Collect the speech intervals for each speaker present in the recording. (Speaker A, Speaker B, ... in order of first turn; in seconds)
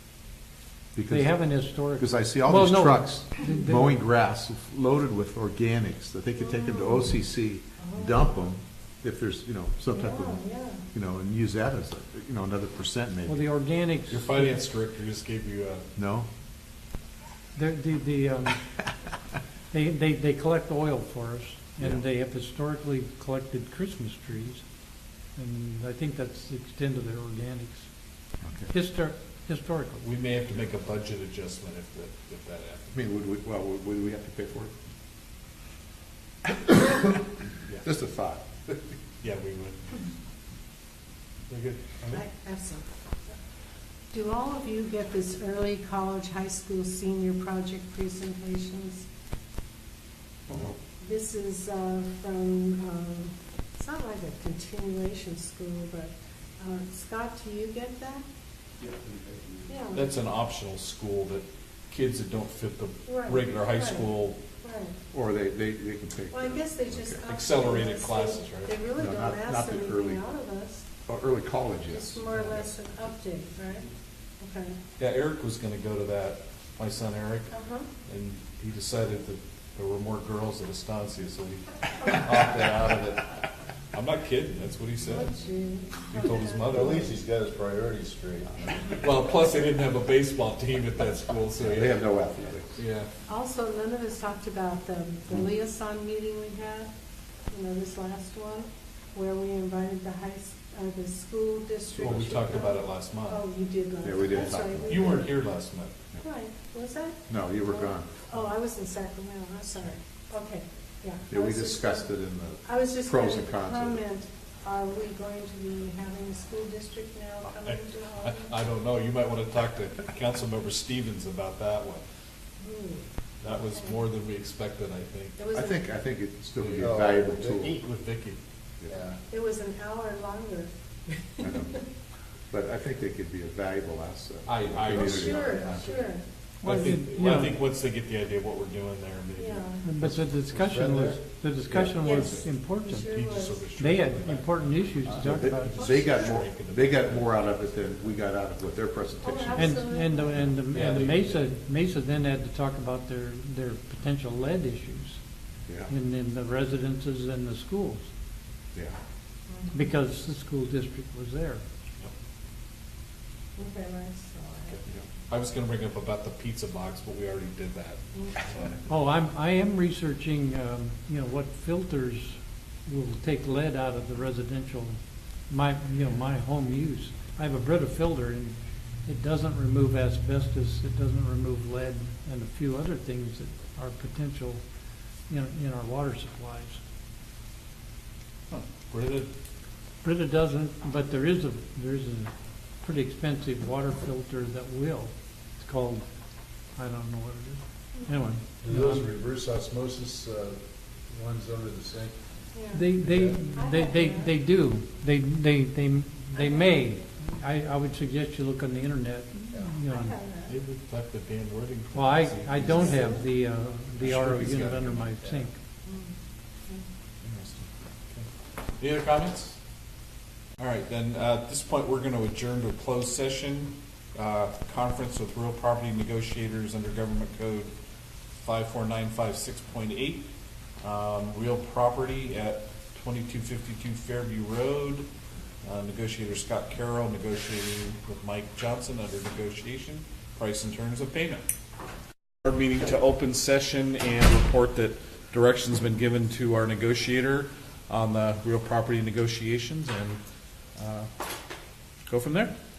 Speaker A: 0.9-1.4, 2.0-13.4, 16.0-16.3, 28.4-28.7, 33.0-34.7, 36.5-37.1, 37.8-38.5, 50.5-50.7, 65.1-67.2, 69.0-70.2, 71.1-72.5, 91.6-92.8, 101.9-102.7, 104.0-105.2, 107.3-108.3, 111.3-114.0, 125.5-127.8, 131.4-131.8, 132.5-135.8, 145.1-149.9, 212.5-213.1, 214.0-215.0, 217.2-217.7
Speaker B: 1.1-3.9, 13.3-14.5, 17.5-18.7, 19.7-24.6, 25.4-27.9, 28.7-30.0, 136.6-137.6, 139.8-143.2, 143.8-145.9, 149.5-155.2, 155.9-158.1, 159.7-161.6, 168.9-184.6, 185.3-186.8, 190.0-196.1, 196.8-199.1, 202.7-210.2, 211.9-215.6
Speaker C: 6.4-7.1, 7.8-8.3, 9.9-10.8, 42.1-42.9, 44.1-49.1, 51.0-58.2, 59.7-60.1, 63.0-64.1, 64.6-64.9, 66.3-70.9, 71.9-73.9, 74.4-74.8, 77.5-77.9, 85.0-87.2, 93.3-96.9, 97.5-105.3, 106.2-112.1, 112.7-118.5, 122.6-123.1, 125.4-125.9, 129.3-131.7, 135.0-136.2, 139.4-139.9, 142.0-143.6, 149.2-150.6, 159.5-159.8, 163.6-164.8, 202.5-202.9, 203.5-204.3, 209.9-210.6, 215.9-216.2
Speaker D: 14.1-15.9, 30.0-33.0, 39.2-40.1, 41.5-42.2, 59.9-64.4, 67.3-68.8, 75.0-77.5, 78.0-85.3, 86.0-87.2, 89.0-92.0, 92.8-93.1, 102.0-103.4, 104.4-105.9, 117.4-122.0, 123.4-125.4, 126.6-127.0, 127.5-128.4, 134.5-136.1, 136.6-140.2, 141.7-142.4, 143.1-147.4, 150.7-151.5, 164.7-168.8, 188.5-189.3, 210.5-212.9, 214.1-214.8, 218.8-219.6, 220.6-227.7, 228.4-230.3, 230.8-235.1, 235.6-241.5, 242.4-250.2, 250.8-251.1, 252.1-252.5
Speaker E: 86.8-88.6, 126.8-127.8, 128.9-129.2, 140.5-141.2, 198.6-202.1, 203.0-203.4